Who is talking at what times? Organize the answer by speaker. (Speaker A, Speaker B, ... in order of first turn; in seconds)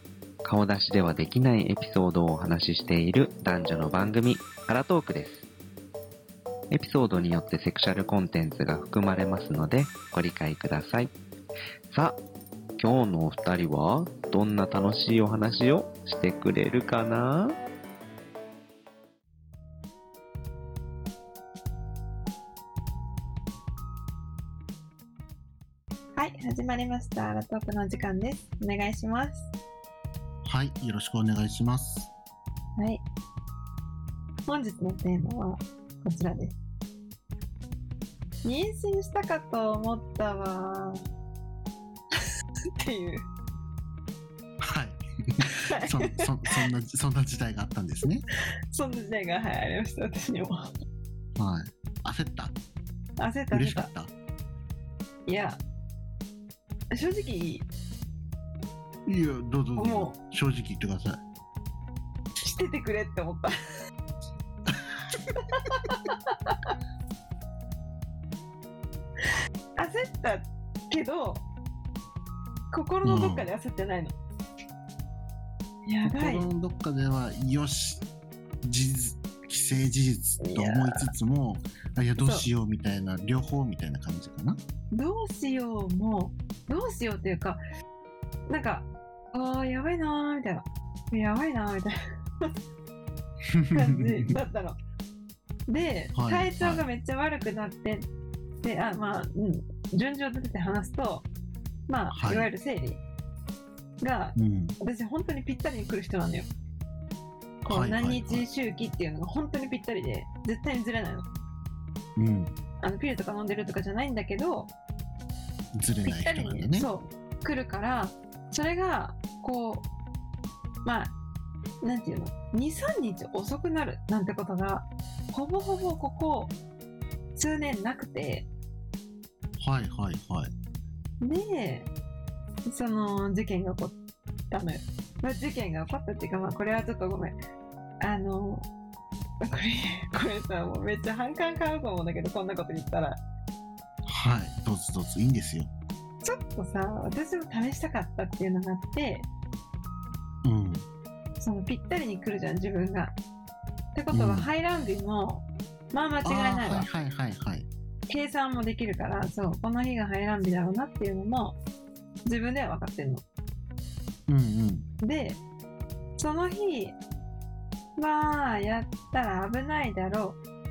Speaker A: 0.4-5.5, 6.7-11.1, 11.9-12.2, 12.8-17.6
Speaker B: 26.2-29.5, 32.8-33.0, 34.5-36.6, 38.4-41.0, 42.2-43.3, 45.5-46.7, 48.7-50.7, 53.2-53.9, 55.3-55.6, 56.9-57.7, 59.8-60.2, 62.4-63.5, 65.5-66.7, 69.8-71.5, 72.7-74.2, 75.9-76.5, 80.4-81.1, 82.2-82.5, 84.9-87.6, 88.5-92.0, 93.7-94.8, 95.7-98.1, 98.6-101.3, 101.9-103.0, 104.0-106.5, 107.7-111.3, 112.8-114.7, 116.0-119.9, 120.8-121.1, 121.8-126.5, 127.3-128.5, 131.2-131.9, 132.7-134.0, 134.5-137.4, 138.0-138.7, 139.4-143.2, 146.2-149.3, 151.4-153.2, 153.9-156.9, 158.1-161.6, 162.2-163.2, 165.0-165.4, 166.2-167.0, 168.0-170.4
Speaker C: 30.4-32.1, 44.6-48.2, 51.4-52.6, 53.5-54.1, 59.1-61.2, 64.7-65.2, 73.0-73.5, 76.0-78.0, 78.6-84.6, 93.5-94.3, 96.2-96.8, 102.1-102.5, 104.4-104.8, 107.6-108.5, 112.2-112.6, 115.7-116.9, 129.6-130.5, 144.1-145.7, 150.4-150.9, 154.1-154.5, 156.2-157.7, 164.3-164.9